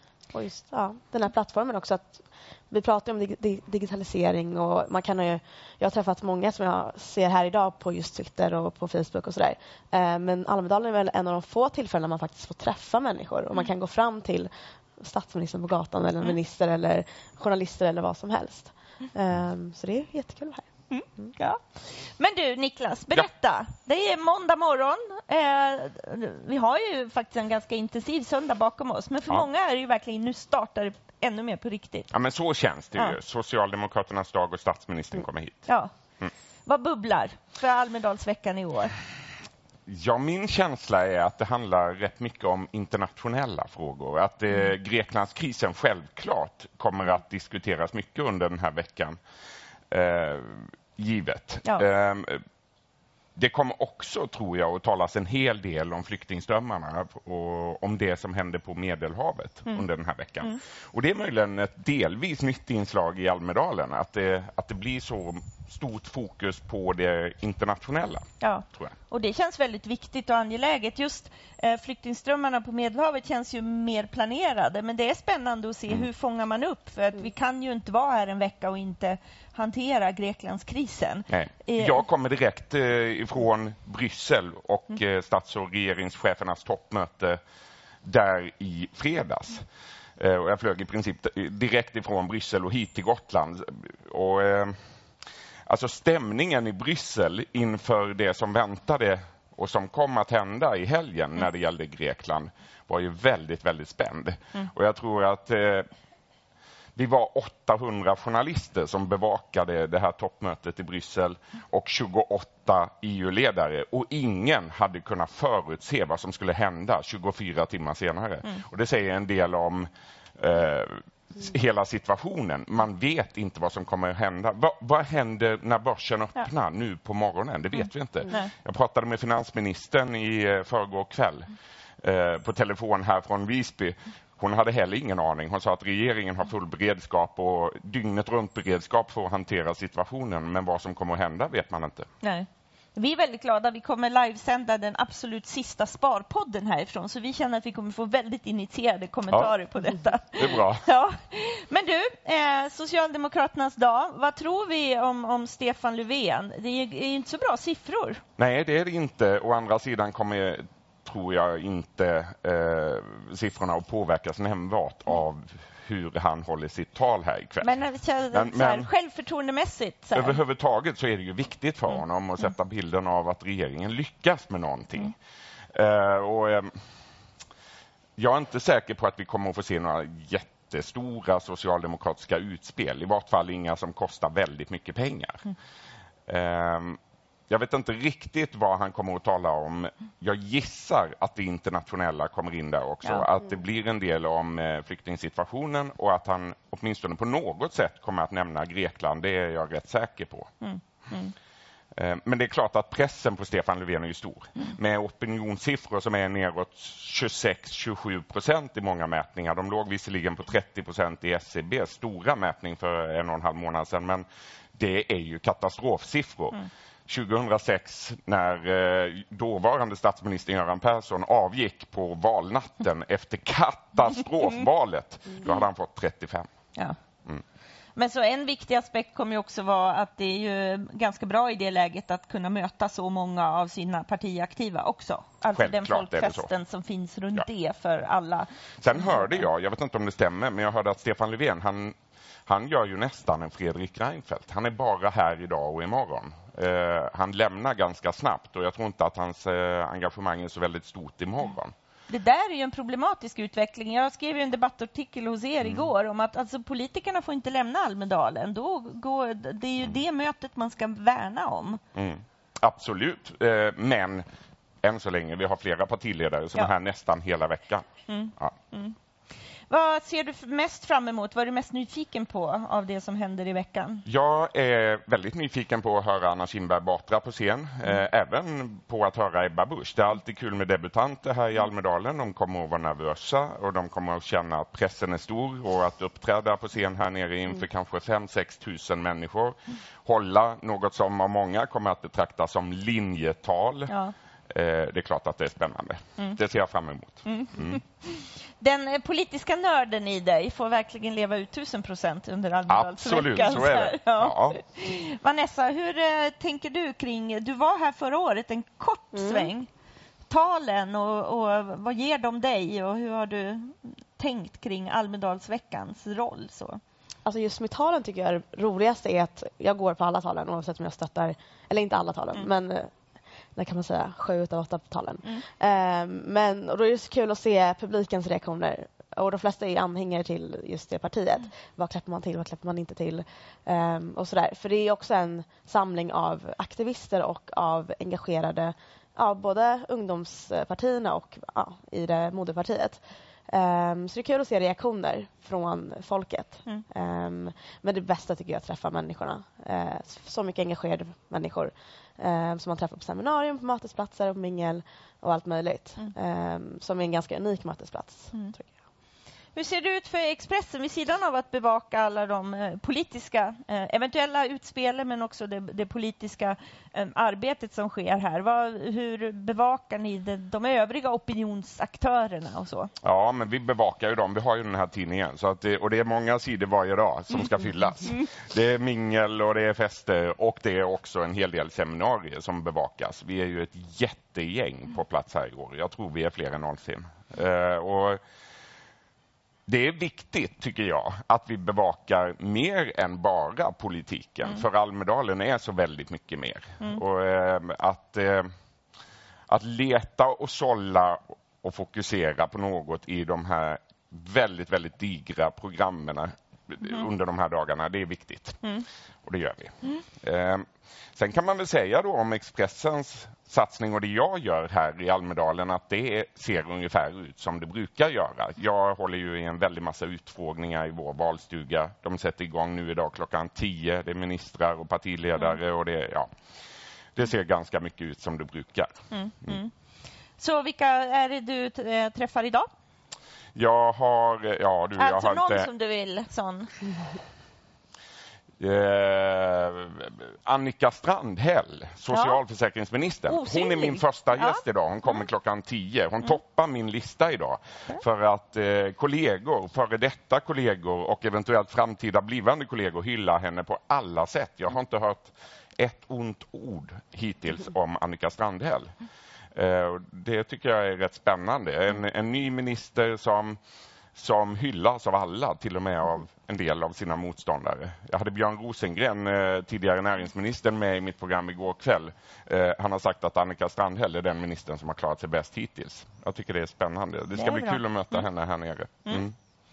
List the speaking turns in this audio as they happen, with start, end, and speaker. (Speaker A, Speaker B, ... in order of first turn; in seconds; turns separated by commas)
Speaker A: 0.3-20.7, Speaker B: 20.9-32.1, Speaker C: 32.1-35.6, Speaker B: 35.7-35.9, Speaker B: 36.7-39.0, Speaker C: 39.9-49.2, Speaker C: 49.9-52.4, Speaker C: 53.4-68.9, Speaker B: 68.4-82.0, Speaker C: 81.3-87.4, Speaker C: 88.0-89.7, Speaker C: 90.2-94.8, Speaker C: 95.7-105.9, Speaker C: 107.0-142.1, Speaker B: 142.2-158.2, Speaker C: 149.3-149.6, Speaker C: 150.3-150.9, Speaker C: 158.4-167.8, Speaker B: 167.6-170.4, Speaker C: 168.3-168.9, Speaker C: 170.1-175.2, Speaker C: 175.7-176.7, Speaker C: 178.2-185.5, Speaker C: 186.3-200.5, Speaker B: 200.6-201.3, Speaker C: 201.9-226.5, Speaker B: 228.0-238.5, Speaker C: 235.5-236.5, Speaker C: 238.8-242.0, Speaker C: 242.5-251.7, Speaker B: 252.1-261.8, Speaker C: 255.6-255.9, Speaker C: 261.9-264.2, Speaker C: 264.8-267.9, Speaker B: 268.1-268.9, Speaker B: 269.7-274.0, Speaker C: 274.1-293.9, Speaker C: 294.5-297.8, Speaker B: 297.2-309.7, Speaker C: 302.7-304.6, Speaker A: 309.1-309.5, Speaker B: 310.3-316.8, Speaker A: 317.2-322.9, Speaker A: 323.6-358.7, Speaker B: 359.6-372.9, Speaker C: 373.0-388.2, Speaker C: 389.7-398.5, Speaker C: 399.5-408.6, Speaker C: 409.2-426.3, Speaker C: 427.2-429.6, Speaker B: 429.1-429.7, Speaker B: 430.4-432.7, Speaker C: 433.6-435.7, Speaker B: 435.0-436.7, Speaker C: 438.6-458.9, Speaker B: 442.1-442.4, Speaker B: 443.3-445.3, Speaker C: 459.6-463.6, Speaker C: 464.1-479.4, Speaker B: 477.4-478.2